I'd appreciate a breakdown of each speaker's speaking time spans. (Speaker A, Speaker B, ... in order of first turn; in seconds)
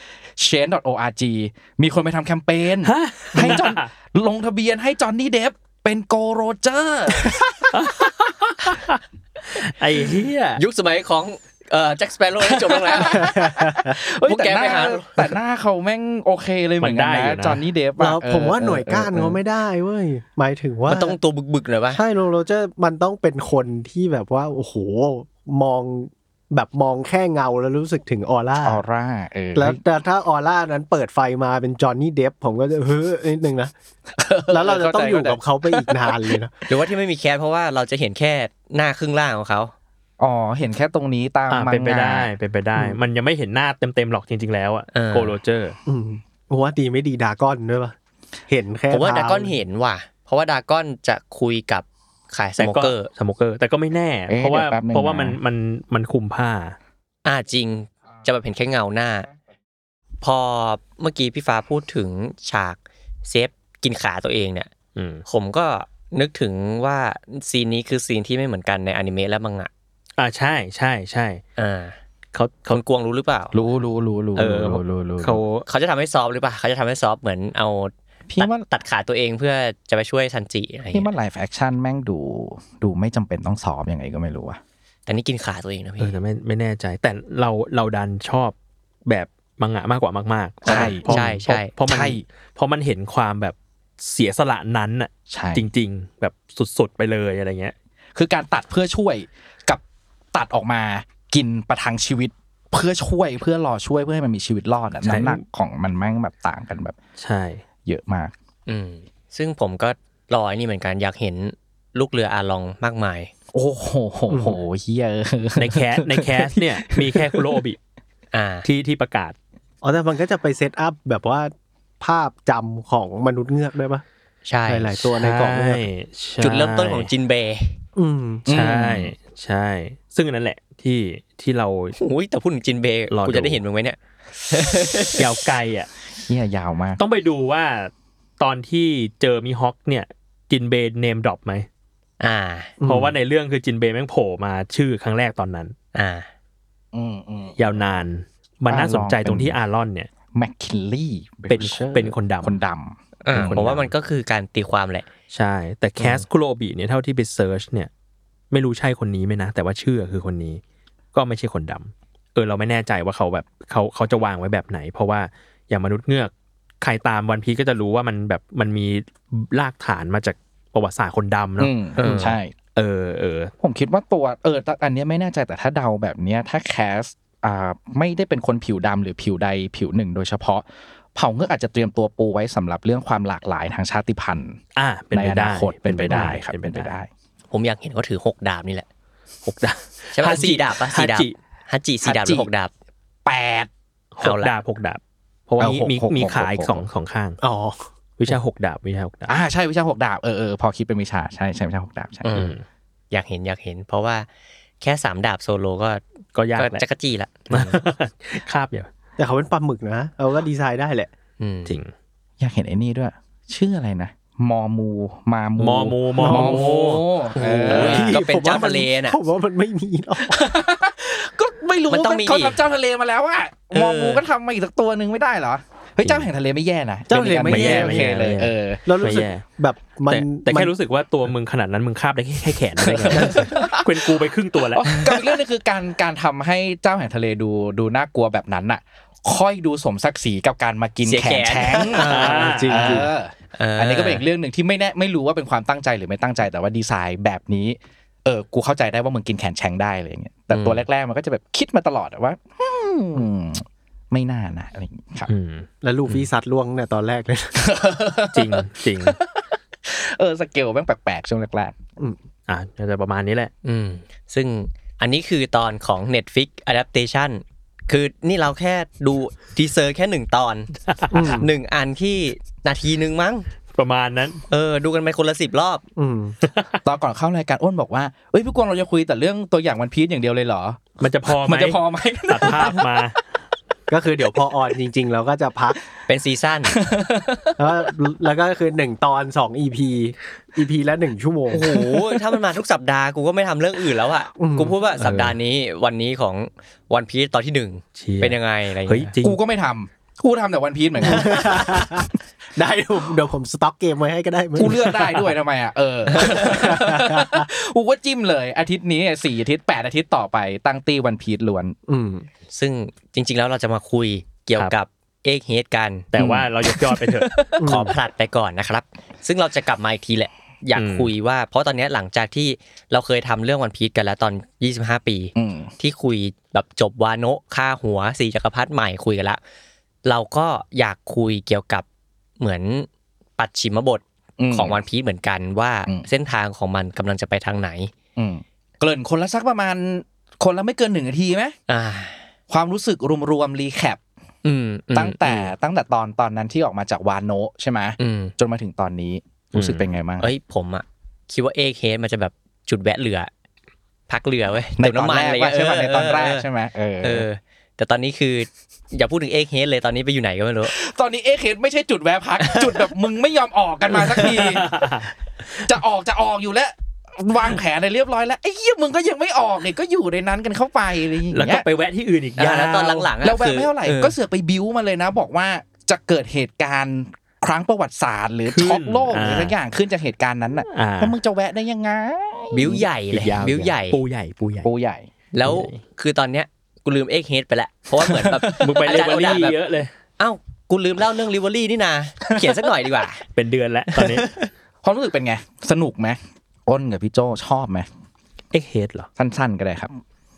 Speaker A: 0.3-7.9, 12.4-19.4, 28.6-29.8, 34.1-36.4, 40.2-42.3, 54.3-55.4, 73.5-75.4, 78.3-78.7, 80.9-84.6, 90.7-91.2, 91.8-92.2, 95.3-95.6, 98.1-99.8, 100.3-107.0, 107.8-108.3, 113.5-117.4, 128.5-129.1, 136.3-137.0, 146.9-147.8, 148.7-149.6, 150.3-153.9, 171.6-172.5, 173.6-184.6, 185.1-187.1, 192.0-192.5, 193.2-193.7, 195.6-196.8, 199.3-202.3, 212.4-218.2, 220.3-228.8, 232.8-234.1, 234.7-255.3, 257.6-261.7, 276.8-282.9, 286.7-287.6, 299.2-302.0, 304.6-311.8, 316.1-317.2, 325.3-325.7, 334.4-334.8, 338.1-341.5, 342.5-344.0, 344.9-350.3, 354.8-357.2, 360.7-364.7, 365.6-371.6, 373.2-382.8, 384.6-385.1, 388.0-389.3, 394.8-397.9, 399.2-400.0
Speaker B: 2.8-3.9, 7.7-10.6, 16.8-17.6, 41.5-45.8, 52.6-56.8, 65.0-65.2, 70.2-71.4, 72.3-72.8, 74.3-75.7, 86.0-88.5, 89.0-97.7, 105.0-105.4, 107.2-107.6, 115.6-117.8, 118.6-119.3, 125.1-127.1, 128.5-132.0, 133.1-133.6, 135.1-135.9, 137.0-141.7, 142.8-145.7, 147.6-150.1, 151.5-152.6, 153.3-153.7, 155.3-157.9, 158.5-160.6, 161.1-173.5, 184.8-186.9, 189.4-191.3, 194.1-197.4, 198.2-199.4, 202.3-202.6, 206.3-206.8, 207.5-208.9, 211.7-211.9, 215.6-218.2, 226.0-226.3, 227.4-229.4, 230.1-235.0, 242.1-243.0, 255.3-256.3, 258.3-259.2, 262.5-263.5, 270.9-271.4, 273.7-274.4, 276.4-276.8, 281.0-283.2, 295.0-295.3, 298.0-299.4, 304.6-305.2, 316.1-317.9, 320.8-321.1, 349.5-349.9, 364.3-365.1, 371.3-373.1, 378.5-379.5, 380.7-381.1, 383.1-384.7, 385.4-385.8, 388.5-389.9, 393.3-394.3, 398.5-399.1
Speaker C: 10.6-13.3, 14.2-15.2, 20.9-22.0, 36.7-39.7, 44.9-45.4, 48.9-53.1, 57.2-59.3, 60.2-64.7, 65.2-69.7, 71.6-72.0, 72.7-73.6, 75.7-81.1, 85.1-86.2, 90.6-91.7, 108.7-113.3, 118.3-118.7, 124.5-125.1, 126.4-127.8, 131.9-134.0, 134.5-135.2, 142.2-142.7, 145.9-146.3, 153.2-155.1, 156.0-156.2, 172.0-172.3, 187.5-188.8, 190.1-192.7, 194.2-194.5, 202.2-202.6, 203.1-204.3, 204.8-206.0, 206.5-207.8, 211.4-211.8, 217.7-219.2, 221.9-222.6, 223.7-224.2, 241.0-242.9, 243.5-244.2, 250.5-250.8, 263.6-270.7, 271.2-273.5, 274.5-275.8, 286.1-286.8, 291.5-299.1, 312.5-316.1, 317.6-329.4, 330.0-331.8, 332.4-337.9, 341.7-342.2, 344.4-345.5, 348.0-348.3, 350.2-353.3, 354.1-356.4, 357.0-360.8, 362.4-362.7, 372.4-374.1, 382.5-384.0, 385.3-389.6, 390.2-393.2, 393.9-394.5
Speaker D: 13.1-13.9, 18.0-21.1, 21.9-28.8, 29.5-33.7, 34.5-36.5, 45.9-47.9, 48.5-49.6, 114.3-114.6, 119.8-124.0, 124.7-125.9, 128.0-128.4, 142.8-143.1, 197.4-198.3, 209.2-211.1, 216.1-216.8, 217.3-220.4, 227.1-228.1, 228.8-230.7, 233.1-233.4, 242.0-243.1, 255.8-257.7, 271.1-271.5, 276.0-276.4, 283.9-285.8, 287.6-292.2, 294.4-294.8, 301.0-304.9, 306.1-307.5, 311.9-312.3, 317.6-317.9